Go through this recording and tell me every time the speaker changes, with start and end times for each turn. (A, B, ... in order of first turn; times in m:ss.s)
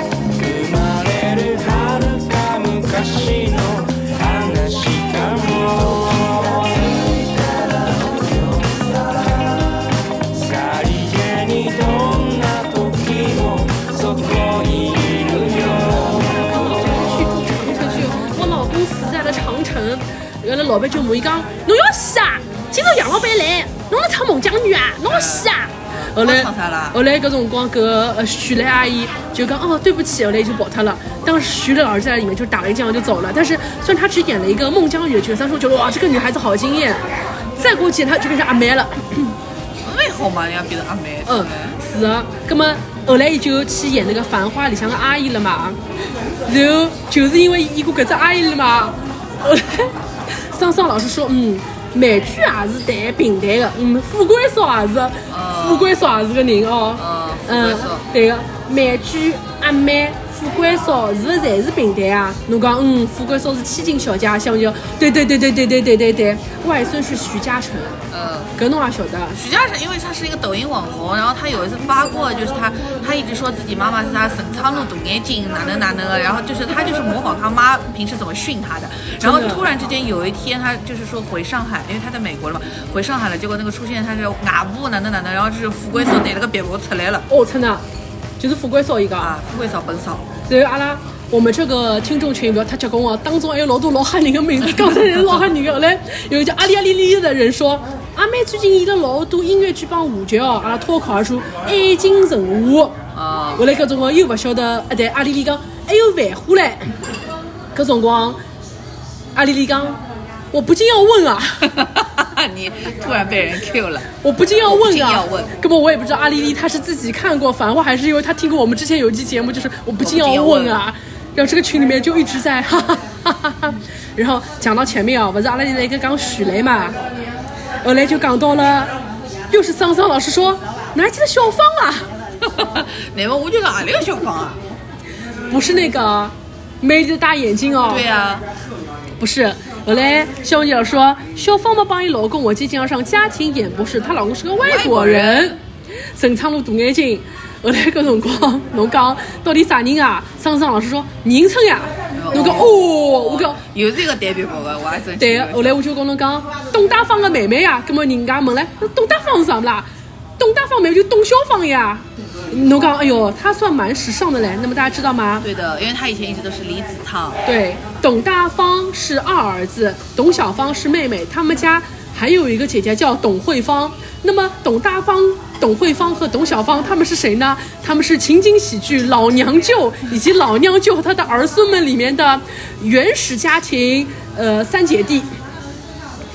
0:00.3-0:16.6 A
0:16.2-0:37.0 B
0:25.1-0:27.0 C
0:37.6-0:39.3 B
0:39.8-0:41.8 C
0:41.2-0:45.8 B
0:46.4-1:08.0 B
0:55.3-0:56.0 C
0:57.0-0:58.1 C
1:08.1-1:08.5 C
1:08.6-1:09.4 B
1:09.3-1:27.3 C
1:19.2-1:19.6 B
1:27.3-1:27.8 B
1:28.4-1:29.3 B
1:29.2-1:30.3 C
1:30.5-1:43.0 B
1:43.1-1:43.6 C
1:43.6-1:46.9 B
1:47.7-1:48.4 B
1:49.3-1:50.0 B
1:50.5-1:51.8 B
1:51.7-1:54.1 C
1:54.2-2:07.0 B
1:54.6-1:55.5 C
2:00.0-2:00.8 C
2:07.8-2:08.9 B
2:09.5-2:12.0 B
2:12.4-2:14.6 C
2:15.5-2:18.0 B
2:17.9-2:18.4 C
2:19.2-2:25.6 B
2:24.6-2:25.6 C
2:26.1-2:33.6 B
2:32.2-2:35.8 C
2:35.2-2:39.9 B
2:40.4-2:45.4 B
2:45.4-2:47.4 C
2:47.4-3:05.3 B